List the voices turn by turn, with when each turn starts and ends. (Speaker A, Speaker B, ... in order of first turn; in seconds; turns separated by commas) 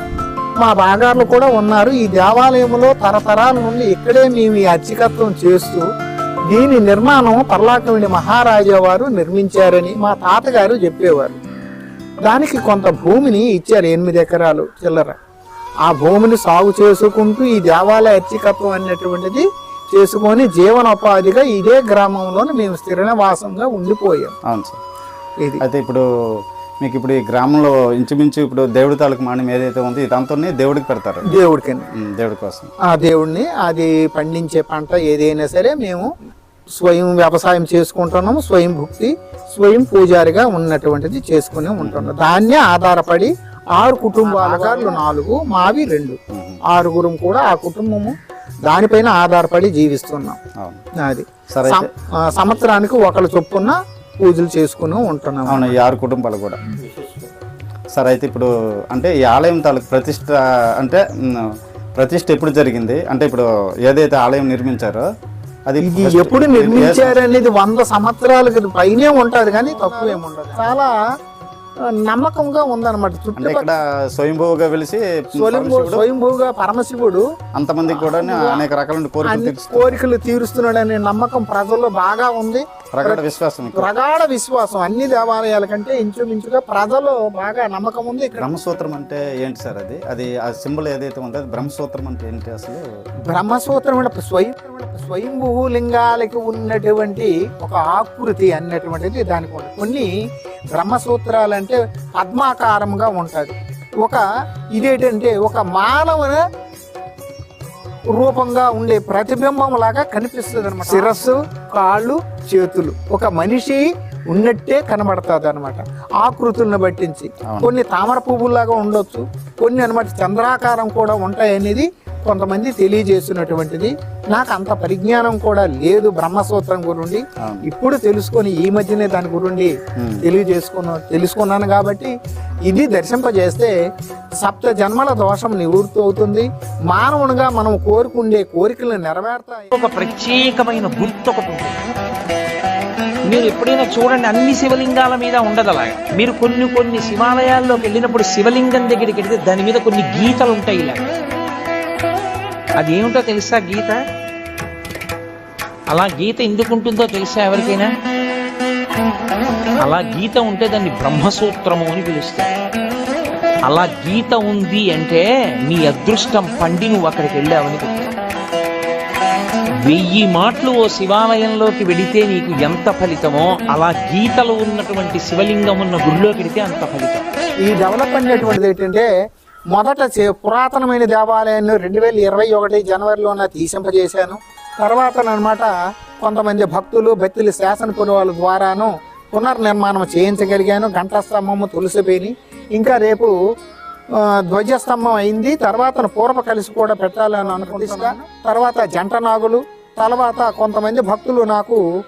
Speaker A: 0.6-5.9, Speaker A: 6.5-11.4, Speaker A: 12.3-15.2, Speaker A: 15.9-24.4, Speaker B: 24.4-24.8, Speaker B: 25.6-31.3, Speaker A: 31.3-31.9, Speaker B: 31.9-32.7, Speaker A: 32.9-36.1, Speaker A: 36.8-46.2, Speaker B: 41.8-42.1, Speaker C: 44.2-45.0, Speaker B: 46.3-46.6, Speaker A: 46.7-48.1, Speaker A: 48.7-50.4, Speaker A: 51.0-55.7, Speaker B: 51.5-51.9, Speaker B: 55.5-56.6, Speaker B: 57.9-65.1, Speaker B: 65.7-67.2, Speaker A: 65.8-71.0, Speaker A: 72.1-73.7, Speaker B: 73.4-76.0, Speaker A: 75.4-77.2, Speaker B: 77.5-80.0, Speaker A: 77.8-78.7, Speaker A: 79.2-88.5, Speaker B: 82.9-83.9, Speaker B: 88.4-92.8, Speaker A: 93.3-100.1, Speaker A: 100.7-104.2, Speaker A: 104.8-106.4, Speaker A: 108.1-132.1, Speaker B: 110.5-110.9, Speaker B: 117.5-117.7, Speaker B: 130.0-130.3, Speaker A: 132.7-133.7, Speaker A: 134.4-139.7, Speaker C: 139.7-141.8, Speaker C: 143.2-151.1, Speaker C: 152.8-154.0, Speaker C: 155.9-157.9, Speaker C: 159.8-162.5, Speaker C: 163.6-168.1, Speaker C: 169.8-177.2, Speaker A: 177.6-179.1, Speaker A: 179.7-193.3, Speaker A: 194.5-201.8